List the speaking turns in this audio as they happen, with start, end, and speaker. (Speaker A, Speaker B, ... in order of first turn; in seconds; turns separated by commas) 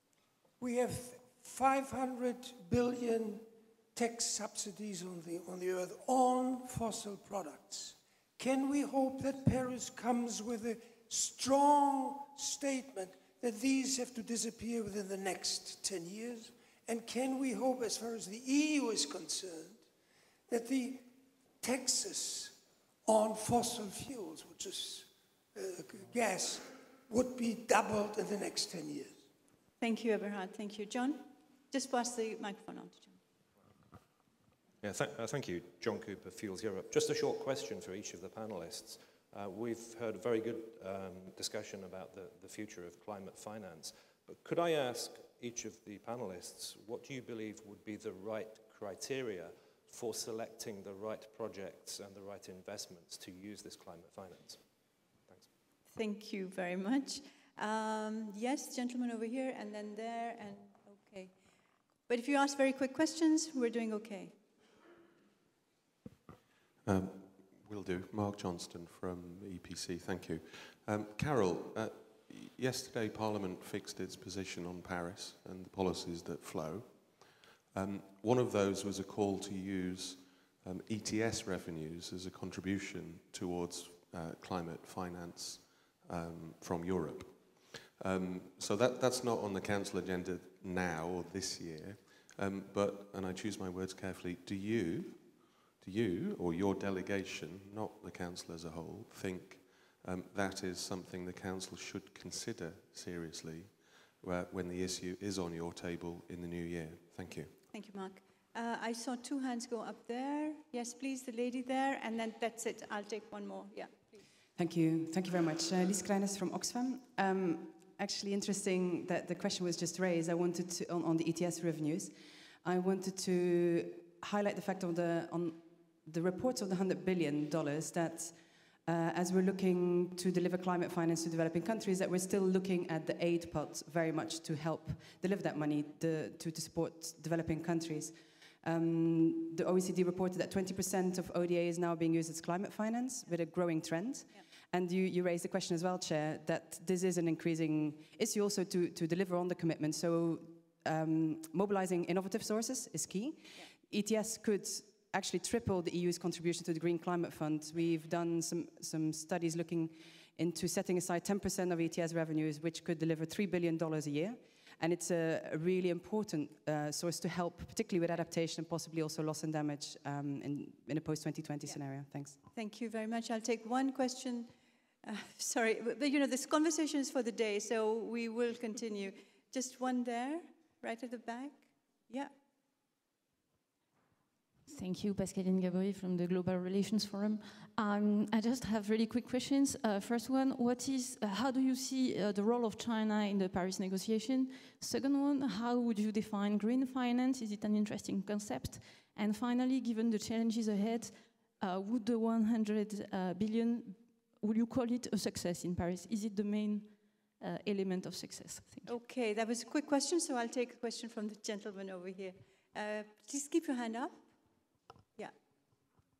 Speaker A: 0.6-19.8, Speaker A: 20.5-21.1, Speaker A: 21.6-29.2, Speaker B: 29.8-33.2, Speaker C: 34.8-54.6, Speaker B: 55.9-61.3, Speaker B: 62.1-64.3, Speaker D: 66.8-107.6, Speaker B: 107.7-114.2, Speaker E: 114.6-172.4, Speaker B: 172.4-174.5, Speaker B: 175.0-182.3, Speaker F: 184.7-208.9, Speaker B: 208.8-214.3